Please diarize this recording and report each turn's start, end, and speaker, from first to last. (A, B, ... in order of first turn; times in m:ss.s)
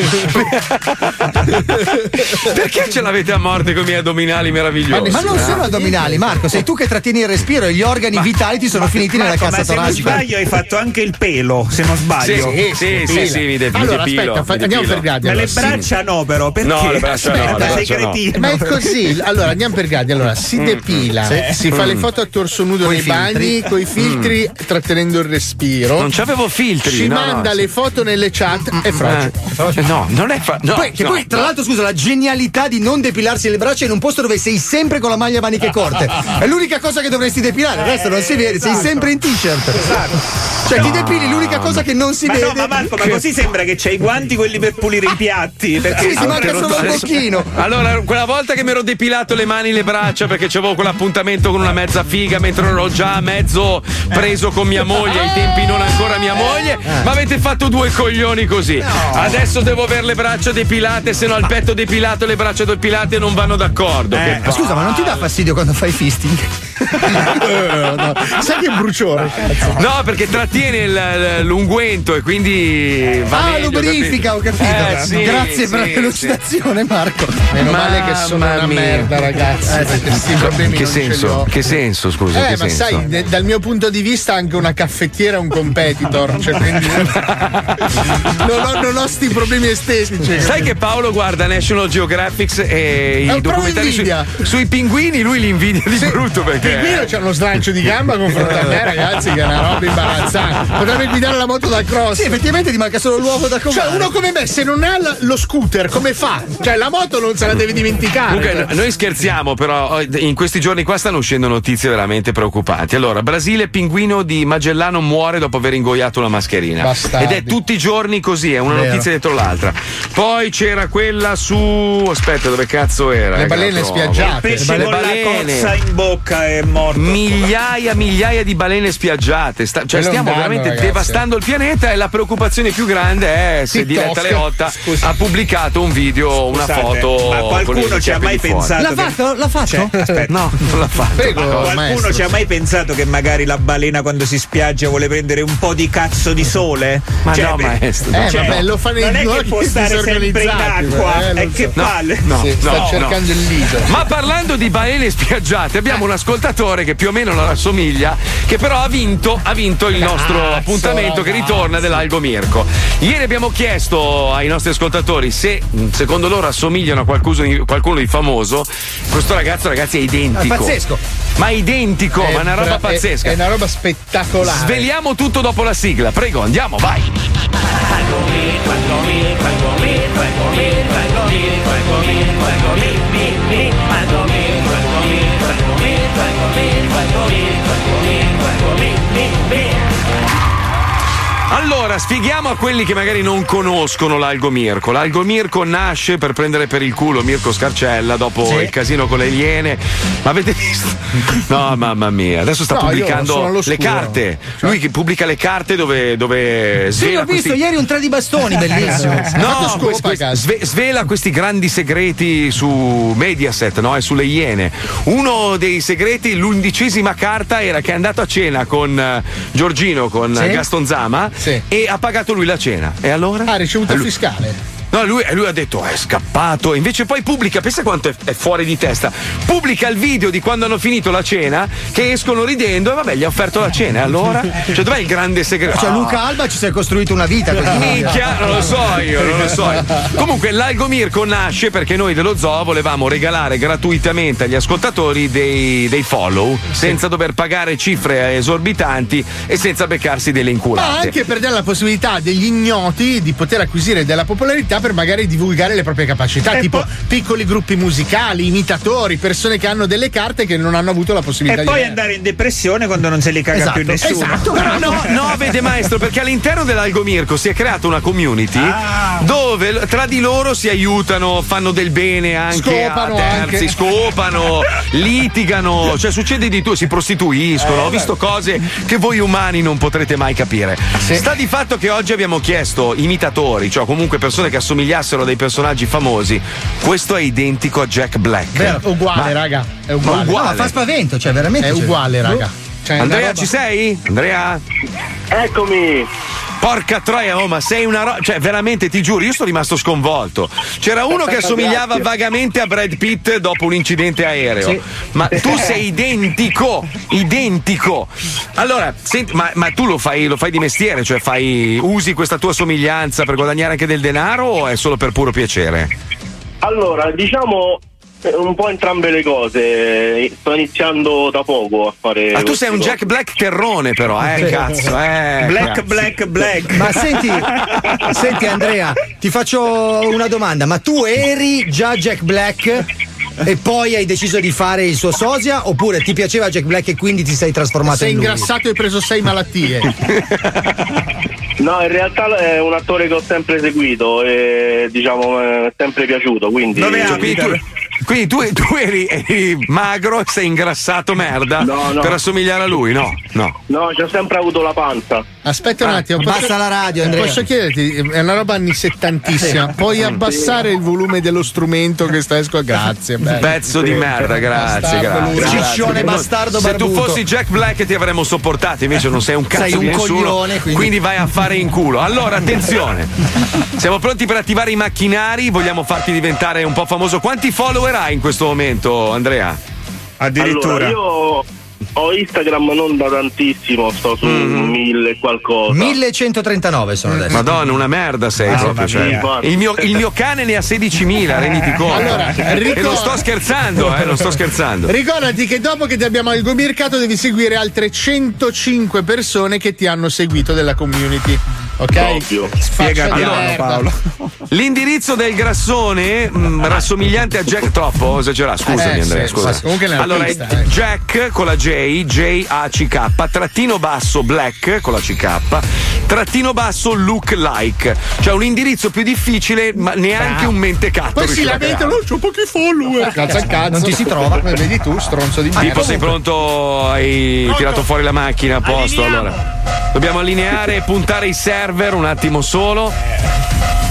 0:00.2-0:01.6 A
0:02.3-0:05.7 A
0:04.9-0:10.2 B
0:08.8-0:12.6 C
0:12.2-0:15.1 A
0:12.3-0:15.8 D
0:15.2-0:19.0 C
0:15.6-0:15.9 A
0:16.6-0:18.2 A
0:17.4-0:17.8 D
0:18.3-0:26.1 D
0:20.6-0:21.1 A
0:21.7-0:22.1 A
0:22.8-0:23.7 B
0:24.0-0:24.3 A
0:26.0-0:27.6 A
0:26.8-0:29.4 D
0:29.0-0:31.5 A
0:29.5-0:29.8 B
0:30.7-0:40.0 B
0:37.8-0:39.1 C
0:39.8-0:41.0 C
0:40.6-0:43.0 B
0:40.8-0:41.8 A
0:42.2-0:47.0 C
0:45.9-0:47.5 B
0:46.1-1:05.1 A
0:56.8-0:57.1 B
0:58.8-0:59.4 B
1:04.1-1:04.6 C
1:04.4-1:06.5 B
1:07.1-1:09.8 D
1:09.8-1:16.4 A
1:13.3-1:17.5 B
1:17.5-1:21.5 D
1:17.6-1:19.1 A
1:19.7-1:20.1 B
1:20.3-1:23.0 A
1:22.3-1:27.2 D
1:27.1-1:27.9 A
1:28.2-1:30.7 D
1:30.4-1:37.1 A
1:33.3-1:34.3 D
1:35.9-1:42.3 D
1:42.1-1:44.1 B
1:43.7-1:48.7 D
1:48.3-2:05.7 A
1:56.8-1:57.6 D
1:58.7-1:59.1 B
2:03.3-2:04.9 D
2:04.3-2:07.5 C
2:06.9-2:18.8 A
2:09.9-2:11.2 D
2:13.7-2:14.5 D
2:14.8-2:15.1 C
2:16.5-2:20.3 C
2:18.8-2:19.9 B
2:20.3-2:21.8 A
2:21.1-2:22.3 D
2:21.4-2:33.0 C
2:27.2-2:28.6 A
2:28.1-2:31.7 D
2:31.7-2:33.2 A
2:32.4-2:34.0 D
2:33.8-2:50.8 A
2:40.0-2:41.9 D
2:50.3-2:51.0 B
2:51.4-2:53.4 A
2:52.2-2:54.9 D
2:54.4-2:57.1 A
3:11.5-3:27.6 A
3:18.4-3:18.7 B
3:22.7-3:24.8 D
3:26.9-3:29.8 B
3:29.3-3:44.1 A
3:29.4-3:30.5 D
3:40.3-3:40.6 B
3:43.5-3:44.6 D
3:44.9-3:56.2 A
3:55.7-3:58.7 B
3:57.6-4:11.1 A
4:10.8-4:22.0 D
4:16.5-4:16.9 C
4:21.4-4:25.0 C
4:23.5-4:24.9 B
4:24.5-4:49.3 A
4:28.6-4:29.2 C
4:32.5-4:33.7 D
4:37.7-4:38.0 C
4:48.5-4:48.8 B
4:48.6-4:50.5 D
4:50.0-4:50.7 A
4:50.1-4:52.4 B
4:51.6-4:53.5 D
4:53.0-4:54.6 A
4:55.3-4:56.1 E
4:56.6-5:15.9 A
5:16.6-5:23.0 E
5:22.3-5:25.9 A
5:25.4-5:27.0 C
5:26.7-5:32.9 B
5:33.4-5:38.5 B
5:37.9-5:39.9 D
5:41.6-5:47.3 E
5:46.7-5:47.6 C
5:47.0-5:53.5 A
5:51.6-5:52.2 E
5:53.7-5:55.2 E
5:55.4-6:06.1 D
5:55.8-5:57.4 B
6:03.4-6:13.1 A
6:05.3-6:07.2 B
6:09.5-6:10.9 B
6:13.8-6:19.6 A
6:20.2-6:21.0 C
6:20.4-6:21.4 E
6:22.0-6:26.0 E
6:24.2-6:24.8 A
6:25.7-6:27.4 B
6:27.3-6:34.9 A
6:28.4-6:29.3 C
6:29.0-6:29.9 E
6:31.5-6:32.2 C
6:31.9-6:33.2 D
6:34.9-6:43.9 D
6:41.9-6:42.5 E
6:42.8-6:44.0 C
6:43.1-6:43.5 A
6:44.5-7:02.0 A
6:48.7-6:50.7 D
7:01.1-7:06.1 D
7:03.2-7:04.4 B
7:05.5-7:06.1 B
7:05.6-7:09.4 A
7:07.5-7:07.8 C
7:08.6-7:09.4 C
7:09.9-7:13.0 A